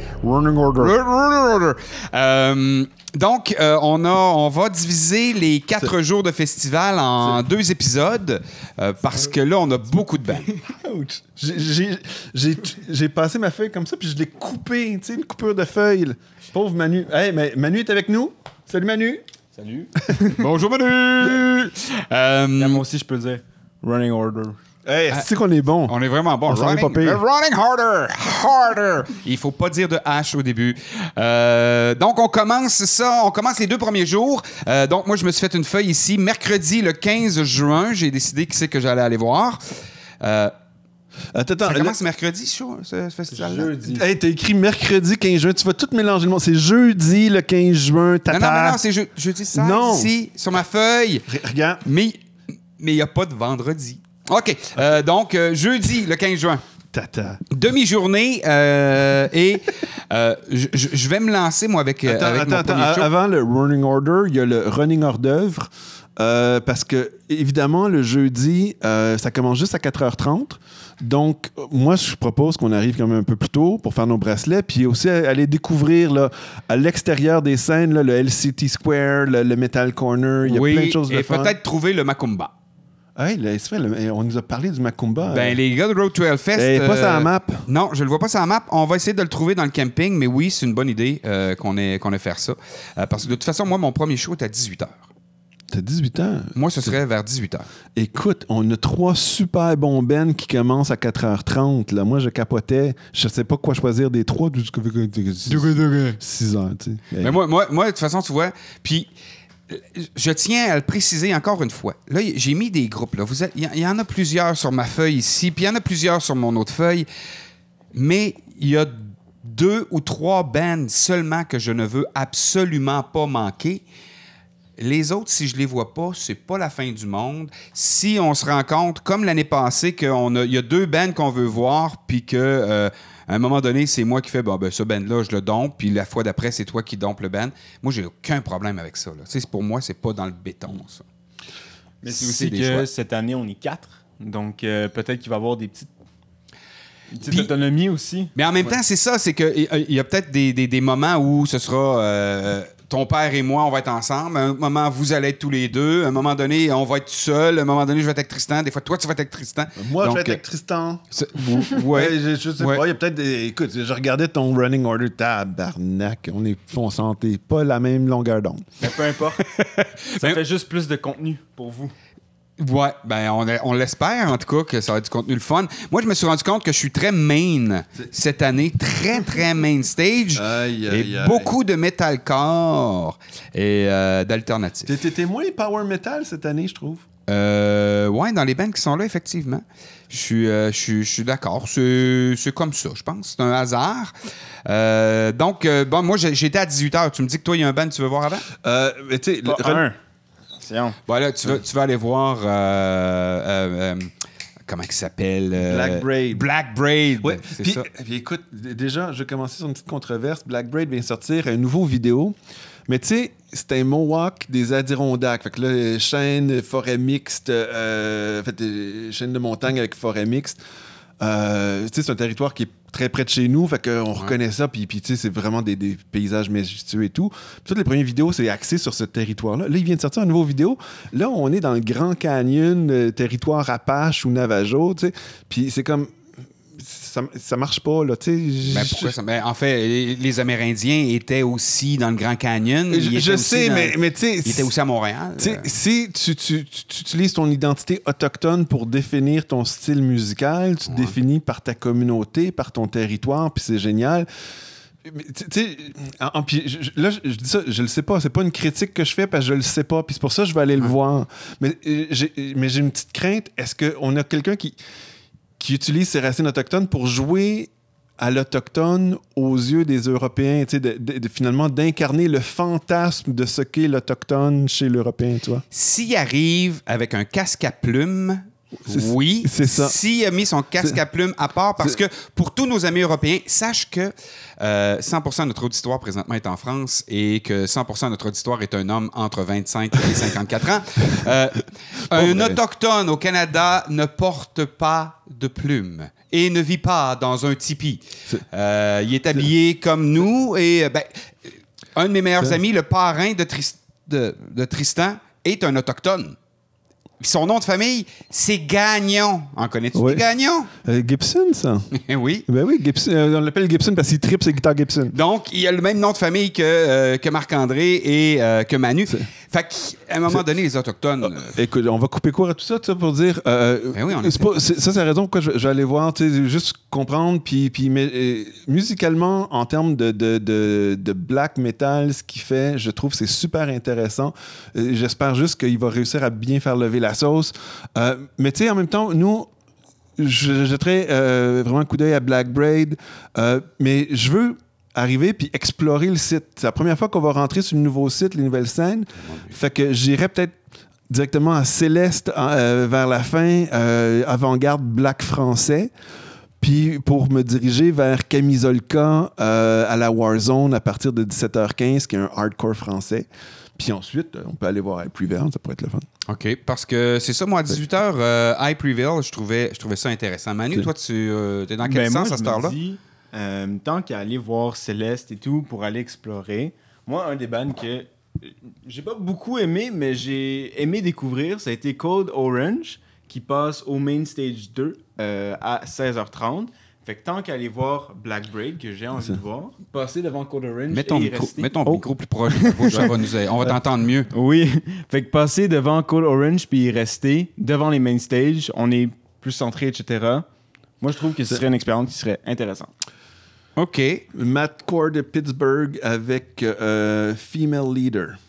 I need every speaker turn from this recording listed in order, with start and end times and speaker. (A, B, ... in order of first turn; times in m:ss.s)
0:00.2-0:00.9 A
0:00.8-0:10.5 B
0:10.6-0:19.2 A
0:19.5-0:20.3 C
0:20.3-0:22.8 B
0:22.6-0:24.6 C
0:24.8-0:25.9 A
0:25.9-0:39.6 B
0:26.5-0:27.2 A
0:40.2-0:40.5 B
0:41.3-0:41.9 A
0:41.6-0:43.7 B
0:43.3-0:44.0 C
0:43.8-0:48.8 A
0:48.3-0:51.3 B
0:49.5-0:50.1 A
0:51.3-0:51.8 A
0:51.8-0:52.2 B
0:52.8-0:56.6 B
0:56.9-0:57.4 A
0:57.5-1:03.1 B
1:02.0-1:21.5 A
1:20.4-1:22.5 B
1:23.2-1:25.6 A
1:25.2-1:35.1 B
1:26.6-1:27.7 A
1:35.7-1:36.9 A
1:36.5-1:37.7 B
1:37.9-1:47.3 A
1:45.5-1:46.2 B
1:47.2-1:49.1 B
1:49.7-1:57.1 B
1:57.9-2:03.8 B
2:04.8-2:21.0 B
2:22.0-2:25.9 C
2:22.1-2:22.8 B
2:27.1-2:28.3 C
2:28.3-2:40.4 B
2:39.8-2:48.7 A
2:41.1-2:42.8 B
2:48.8-2:49.5 C
2:49.4-2:50.4 B
2:50.1-2:51.9 C
2:52.6-3:04.9 B
3:00.3-3:01.5 A
3:04.8-3:07.0 A
3:07.3-3:14.1 B
3:14.6-3:18.5 B
3:18.5-3:19.8 A
3:19.4-3:20.0 C
3:20.6-3:21.0 C
3:21.1-3:24.1 B
3:24.7-3:27.9 B
3:25.6-3:26.5 A
3:27.2-3:32.4 A
3:32.9-3:40.6 A
3:41.2-3:56.2 A
3:56.7-3:59.1 A
3:58.7-4:05.7 B
4:02.9-4:04.7 A
4:05.4-4:14.3 A
4:10.9-4:11.1 B
4:15.0-4:24.8 A
4:25.6-4:35.6 A
4:35.7-5:06.4 B
4:38.8-4:40.0 A
4:52.1-4:52.6 A
5:07.2-5:10.7 B
5:09.9-5:11.9 A
5:11.9-5:12.4 B
5:12.5-5:15.1 A
5:15.1-5:21.6 B
5:21.2-5:39.5 A
5:23.9-5:24.5 B
5:40.2-5:55.9 A
5:49.3-5:49.5 B
5:56.6-6:06.0 A
6:06.3-6:12.7 B
6:11.8-6:33.2 C
6:30.9-6:34.3 B
6:34.3-6:40.4 C
6:41.0-6:42.9 C
6:43.8-6:44.2 B
6:44.3-6:48.4 A